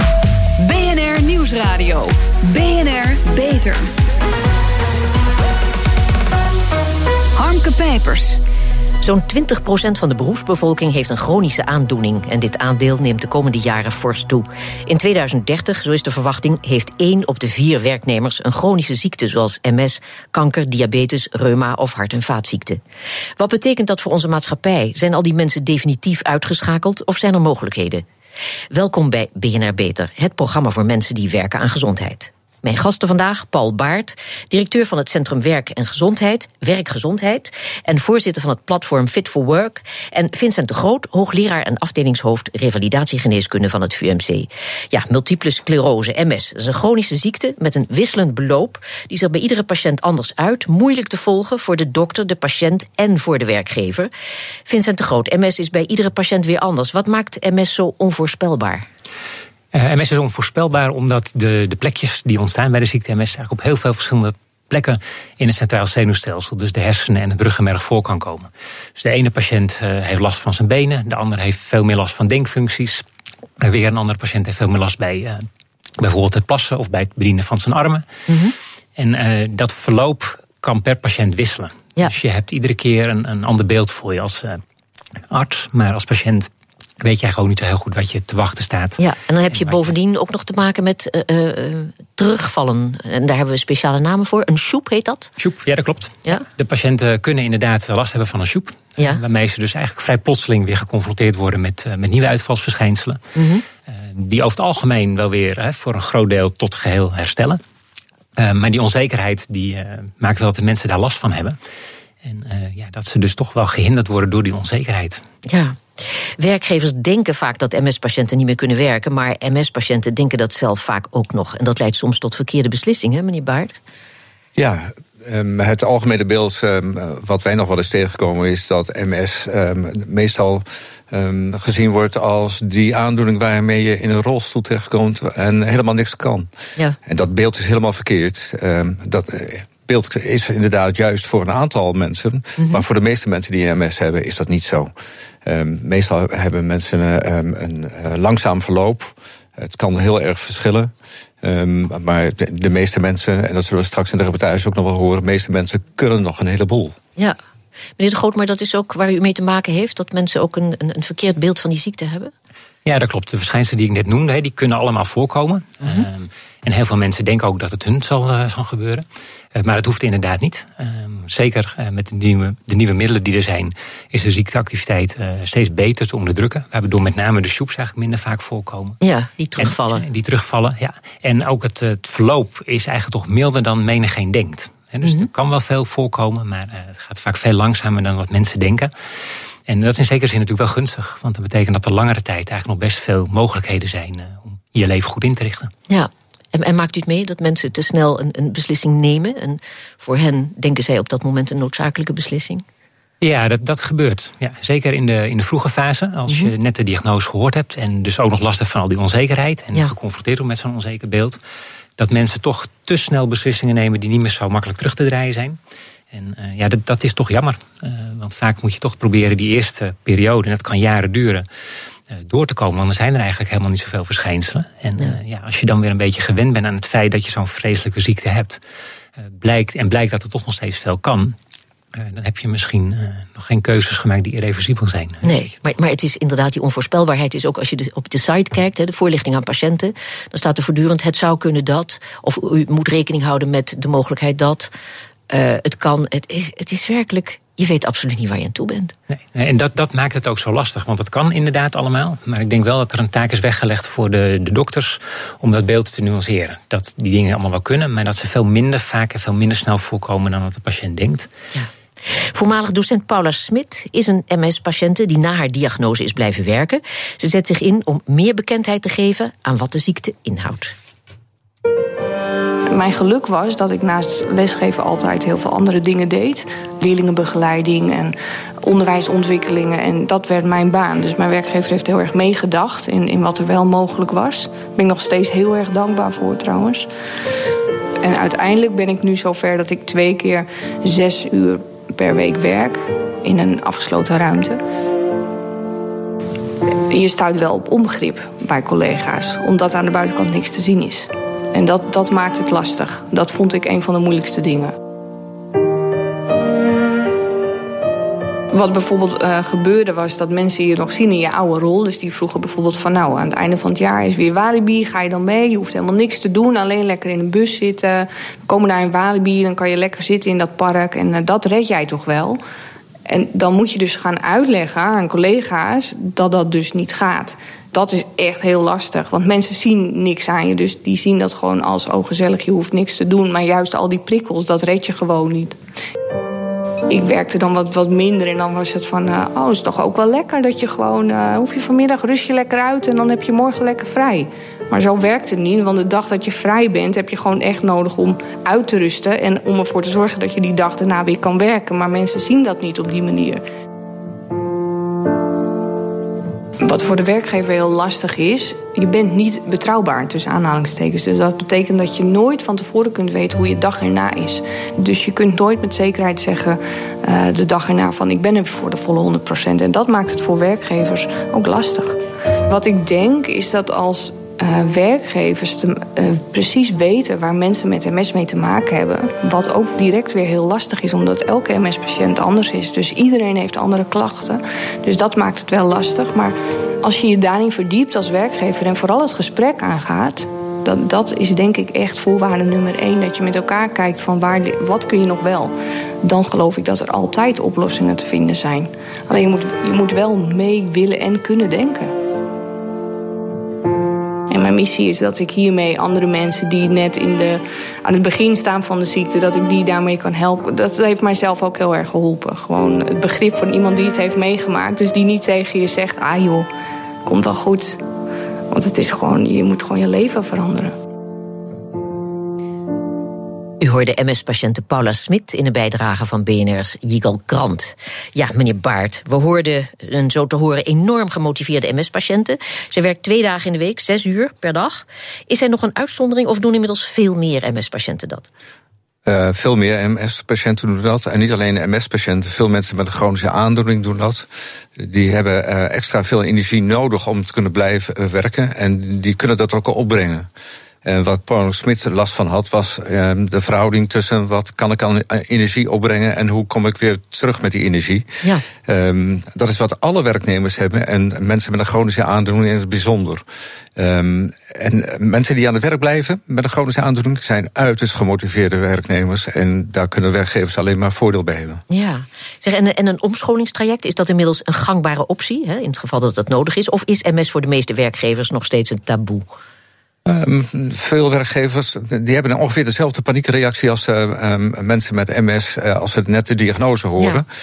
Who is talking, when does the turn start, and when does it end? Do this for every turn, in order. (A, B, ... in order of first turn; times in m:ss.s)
0:00.6-0:03.9 A
0:07.4-0:08.4 A
0:09.0-0:22.8 B
0:23.4-0:28.0 B
0:28.7-0:54.1 B
0:54.7-0:58.8 B
0:59.7-1:13.0 C
1:13.6-1:15.4 C
1:16.0-1:18.0 C
1:18.3-1:18.5 B
1:19.0-1:24.6 C
1:25.3-1:26.5 C
1:27.0-1:29.0 C
1:29.0-1:35.3 B
1:35.4-1:43.2 C
1:43.3-1:43.6 B
1:43.9-1:47.6 C
1:48.4-1:51.6 C
1:52.2-1:55.2 C
1:55.4-1:55.8 B
1:56.4-2:03.7 B
2:04.6-2:16.5 D
2:17.0-2:24.9 D
2:22.6-2:22.8 B
2:25.4-2:30.9 D
2:31.4-2:36.9 D
2:38.0-2:42.3 B
2:42.8-2:59.0 C
2:59.0-3:00.0 B
2:59.6-3:08.9 C
3:05.0-3:05.3 B
3:09.7-3:15.7 C
3:15.9-3:22.6 B
3:23.2-3:31.4 C
3:32.0-3:35.6 C
3:36.1-3:41.4 C
3:42.1-3:48.6 C
3:49.3-3:51.4 C
3:51.9-3:55.5 C
3:55.2-4:04.7 B
4:05.3-4:08.9 B
4:09.1-4:21.3 C
4:21.5-4:30.7 B
4:32.7-4:46.9 E
4:48.0-4:54.6 E
4:56.9-5:04.8 E
5:08.5-5:22.4 E
5:23.1-5:35.6 E
5:36.9-5:53.4 E
5:56.6-6:41.9 E
6:44.3-6:56.5 E
6:57.0-6:57.8 E
6:58.5-7:00.7 E
7:03.6-7:18.3 B
7:19.0-7:30.3 D
7:30.8-7:38.1 D
7:38.6-7:43.2 D
7:43.8-7:51.6 D
7:51.7-7:59.2 B
8:00.0-8:07.2 D